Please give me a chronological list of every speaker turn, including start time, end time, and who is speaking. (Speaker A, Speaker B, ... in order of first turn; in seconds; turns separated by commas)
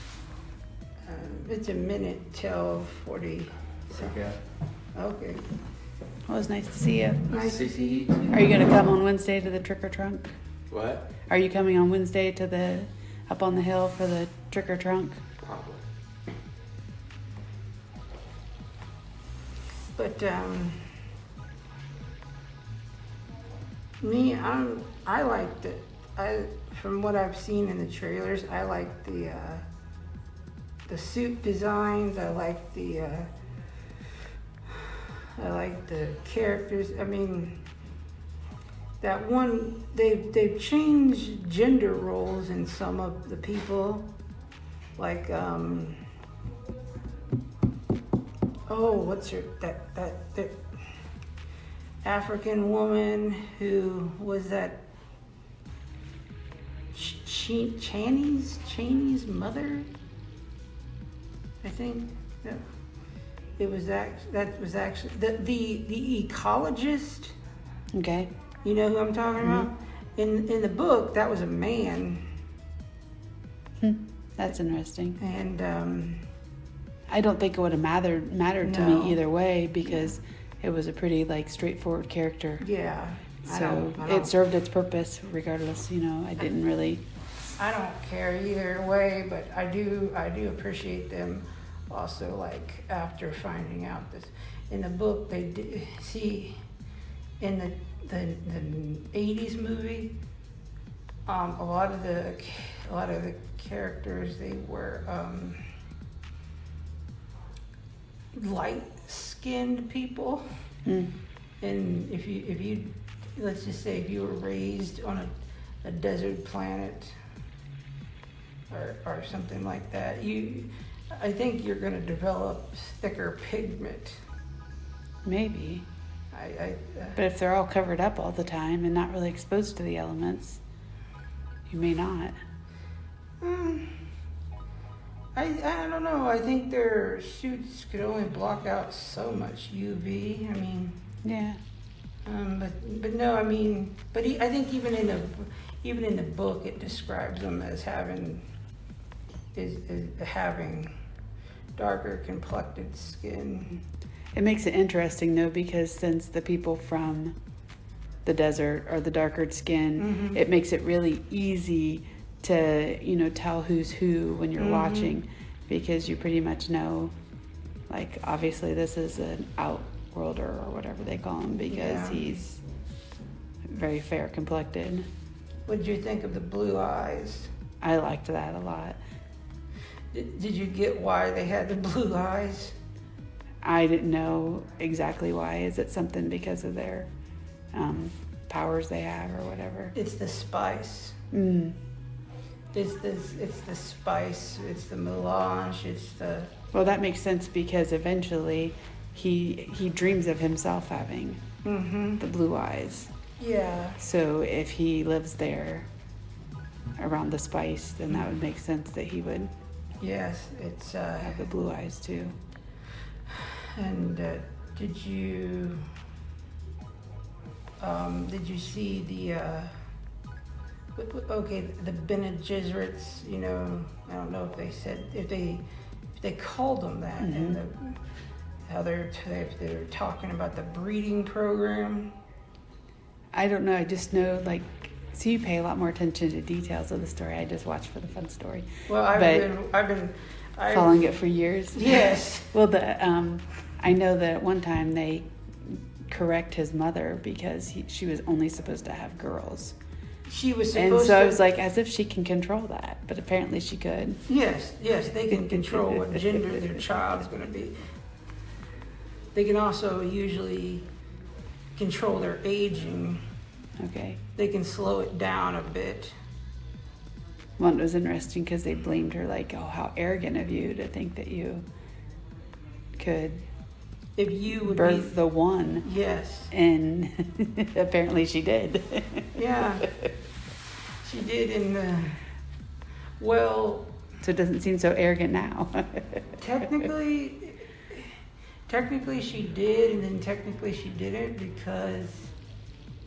Speaker A: 1.0-4.1, Speaker B: 3.9-4.3, Speaker A: 4.9-5.5, Speaker C: 6.3-7.4, Speaker A: 7.3-8.1, Speaker B: 7.3-8.3, Speaker C: 8.3-10.4, Speaker B: 10.7-11.1, Speaker C: 11.3-15.2, Speaker B: 15.4-15.8, Speaker A: 19.9-20.9, Speaker A: 24.0-29.6, Speaker A: 30.9-33.3, Speaker A: 34.7-37.6, Speaker A: 39.0-44.1, Speaker A: 45.0-46.0, Speaker A: 48.7-50.6, Speaker A: 52.0-54.9, Speaker A: 56.9-59.9, Speaker A: 61.6-62.6, Speaker A: 63.6-67.3, Speaker C: 67.9-68.3, Speaker A: 68.6-72.2, Speaker C: 69.4-69.7, Speaker C: 73.8-75.2, Speaker A: 75.2-76.2, Speaker C: 77.1-82.6, Speaker A: 78.6-79.2, Speaker A: 82.6-84.3, Speaker C: 83.5-87.0, Speaker A: 87.6-96.6, Speaker A: 97.4-100.1, Speaker A: 101.2-105.7, Speaker A: 108.3-110.5, Speaker C: 110.8-111.1, Speaker A: 111.6-115.3, Speaker A: 115.8-117.2, Speaker A: 118.7-124.2, Speaker C: 125.2-125.8, Speaker A: 126.3-127.2, Speaker C: 127.2-130.6, Speaker C: 131.7-132.3, Speaker A: 133.4-134.0, Speaker A: 135.3-141.0, Speaker C: 141.2-141.6, Speaker A: 142.2-148.4, Speaker A: 149.5-150.9, Speaker A: 151.8-153.8, Speaker C: 154.3-157.4, Speaker C: 158.2-167.1, Speaker A: 160.0-160.4, Speaker A: 164.6-165.1, Speaker C: 167.9-172.6, Speaker A: 171.7-172.2, Speaker C: 173.7-175.1, Speaker A: 175.7-177.5, Speaker C: 177.8-179.0, Speaker A: 180.1-182.8, Speaker C: 183.6-187.1, Speaker C: 187.7-189.9, Speaker A: 189.9-191.2, Speaker C: 191.3-191.8, Speaker A: 192.7-196.5, Speaker C: 196.7-201.4, Speaker A: 201.6-202.2, Speaker C: 202.2-203.1, Speaker A: 203.4-204.0, Speaker C: 204.0-205.9, Speaker C: 207.0-209.5, Speaker A: 210.0-211.5, Speaker C: 211.2-212.4, Speaker A: 213.3-215.8, Speaker A: 217.8-219.8, Speaker A: 220.9-225.6, Speaker A: 226.2-228.0, Speaker C: 227.2-227.6, Speaker A: 228.7-232.1, Speaker C: 233.3-239.5, Speaker A: 238.9-241.1, Speaker C: 240.7-249.8, Speaker A: 241.8-242.5, Speaker A: 250.3-251.4, Speaker C: 250.7-254.2, Speaker A: 254.3-257.8, Speaker C: 255.3-256.4, Speaker A: 259.3-260.9, Speaker A: 261.8-263.2, Speaker C: 263.8-264.2, Speaker A: 264.3-266.1, Speaker C: 267.6-271.6, Speaker C: 272.9-273.4, Speaker A: 274.2-275.1, Speaker C: 274.6-275.9, Speaker A: 275.8-276.5, Speaker C: 276.5-280.1, Speaker A: 279.3-279.9, Speaker A: 281.0-282.2, Speaker A: 283.2-283.9, Speaker C: 284.2-286.2, Speaker A: 286.4-288.1, Speaker A: 288.7-292.3